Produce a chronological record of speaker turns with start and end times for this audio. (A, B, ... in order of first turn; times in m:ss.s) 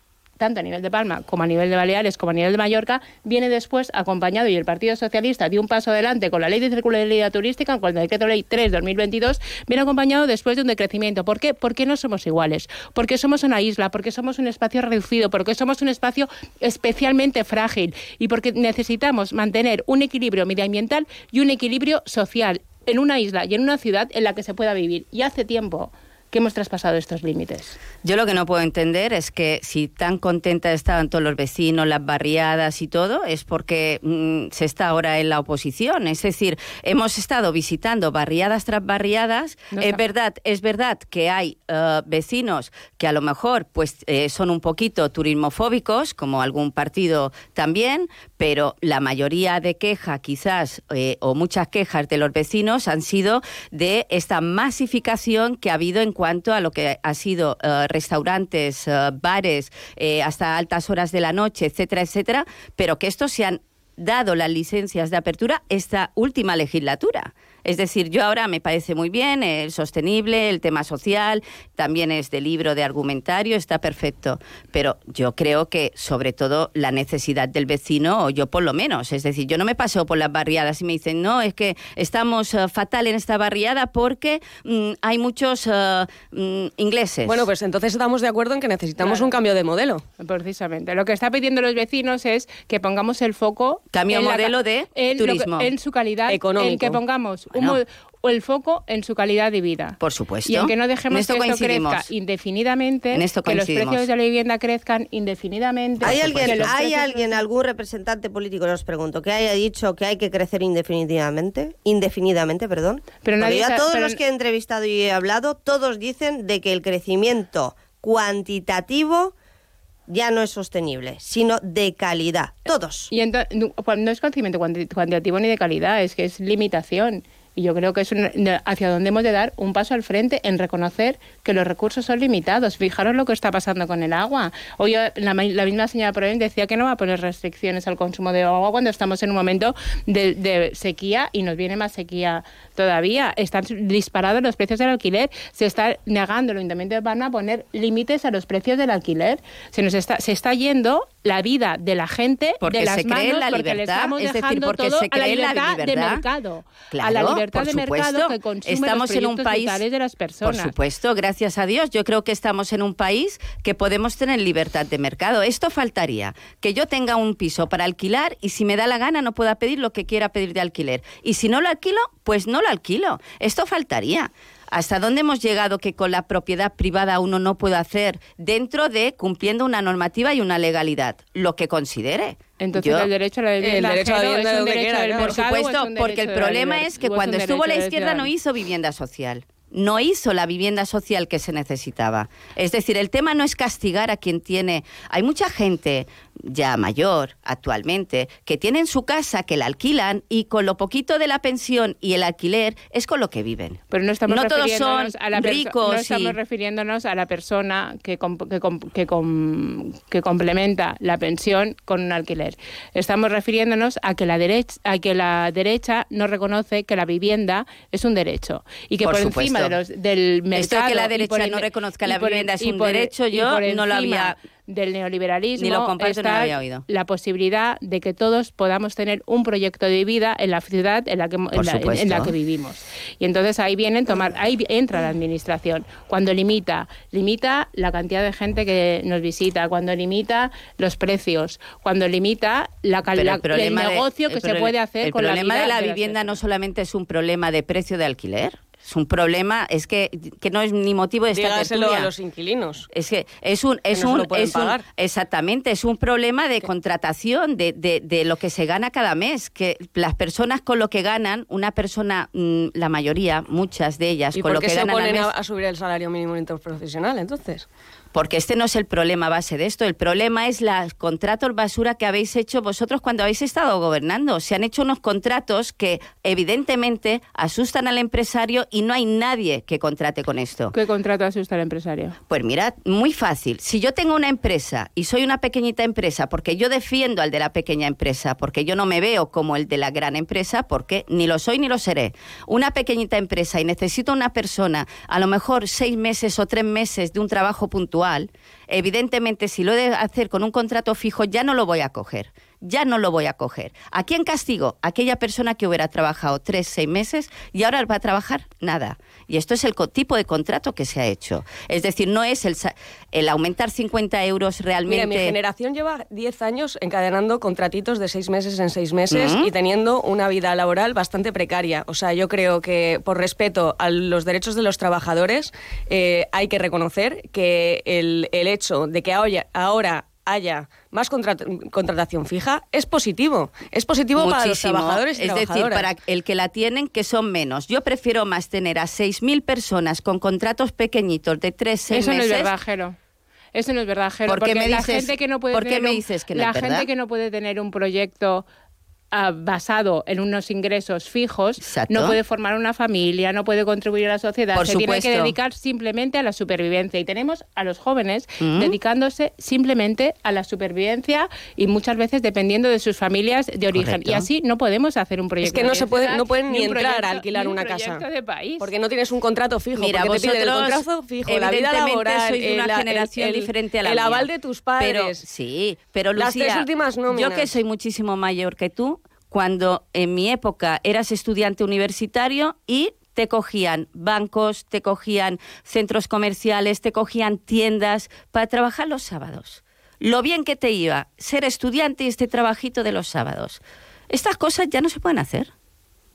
0:00.4-0:27.8 A
0:28.0-1:27.4 B
0:39.7-0:40.0 A
1:27.2-1:30.0 C
1:29.0-1:29.3 A
1:30.2-1:47.4 A
1:33.9-1:35.7 B
1:36.3-1:37.0 C
1:37.5-1:37.8 B
1:40.0-1:42.1 B
1:43.1-1:44.0 B
1:46.0-1:59.3 D
1:46.1-1:46.6 B
1:53.2-1:54.2 A
2:00.1-2:03.1 D
2:03.1-2:40.7 A
2:32.6-2:36.2 B
2:36.9-2:39.8 B
2:40.4-3:03.1 B
3:02.6-3:08.3 A
3:03.6-3:05.4 C
3:05.2-3:26.4 B
3:23.9-4:06.3 A
3:39.0-3:39.8 B
3:40.5-3:44.4 B
3:45.6-3:46.8 B
3:51.5-3:52.3 B
4:03.1-4:12.1 B
4:11.3-4:12.8 C
4:12.9-4:25.3 B
4:13.9-4:14.8 C
4:24.3-4:27.6 C
4:28.1-4:40.8 B
4:40.7-4:42.1 A
4:42.3-5:15.3 B
5:14.9-5:35.9 C
5:19.1-5:19.4 B
5:34.2-5:42.5 B
5:41.9-5:43.0 A
5:43.5-5:48.4 A
5:44.3-5:46.9 B
5:49.1-6:08.7 A
5:51.6-5:52.2 B
5:54.5-5:55.3 B
5:58.4-5:58.8 B
6:03.7-6:04.3 B
6:05.4-6:08.0 C
6:08.6-6:15.2 C
6:09.7-6:14.3 B
6:14.8-6:35.5 B
6:16.1-6:17.5 C